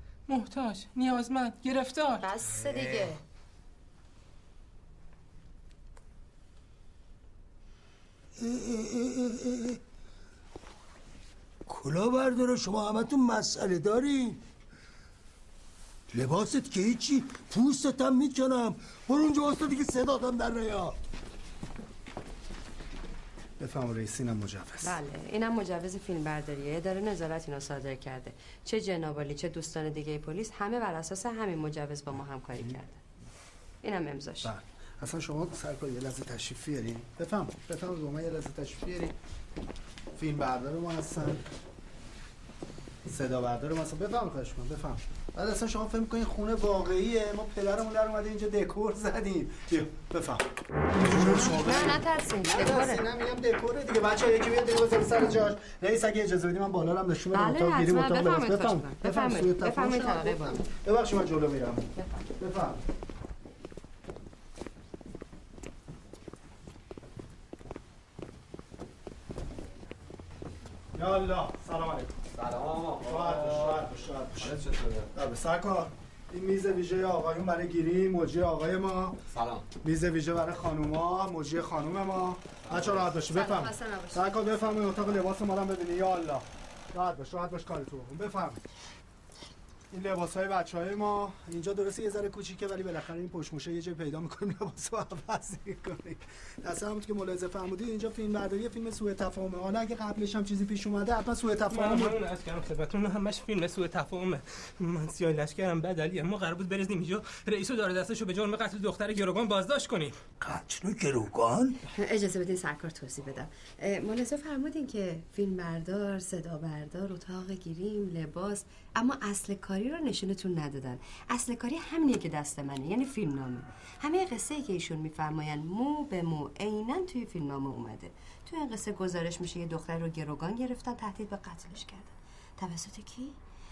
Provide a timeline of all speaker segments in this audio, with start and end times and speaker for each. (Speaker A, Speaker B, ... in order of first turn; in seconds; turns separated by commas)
Speaker A: 0.3-2.2, Speaker B: 2.2-3.2, Speaker C: 8.3-9.8, Speaker C: 11.7-14.4, Speaker C: 16.1-21.0, Speaker D: 23.6-25.0, Speaker B: 24.8-33.0, Speaker B: 33.8-34.5, Speaker D: 34.4-39.1, Speaker D: 40.1-41.4, Speaker D: 43.0-50.5, Speaker D: 51.0-62.8, Speaker B: 51.1-53.0, Speaker B: 57.3-60.6, Speaker B: 62.0-62.3, Speaker D: 70.9-72.1, Speaker E: 72.3-75.1, Speaker D: 73.0-79.2, Speaker E: 79.3-79.7, Speaker D: 79.8-88.6, Speaker E: 82.7-83.0, Speaker B: 83.2-84.5, Speaker D: 89.9-102.2, Speaker A: 101.7-110.2, Speaker C: 110.4-111.8, Speaker B: 111.9-133.4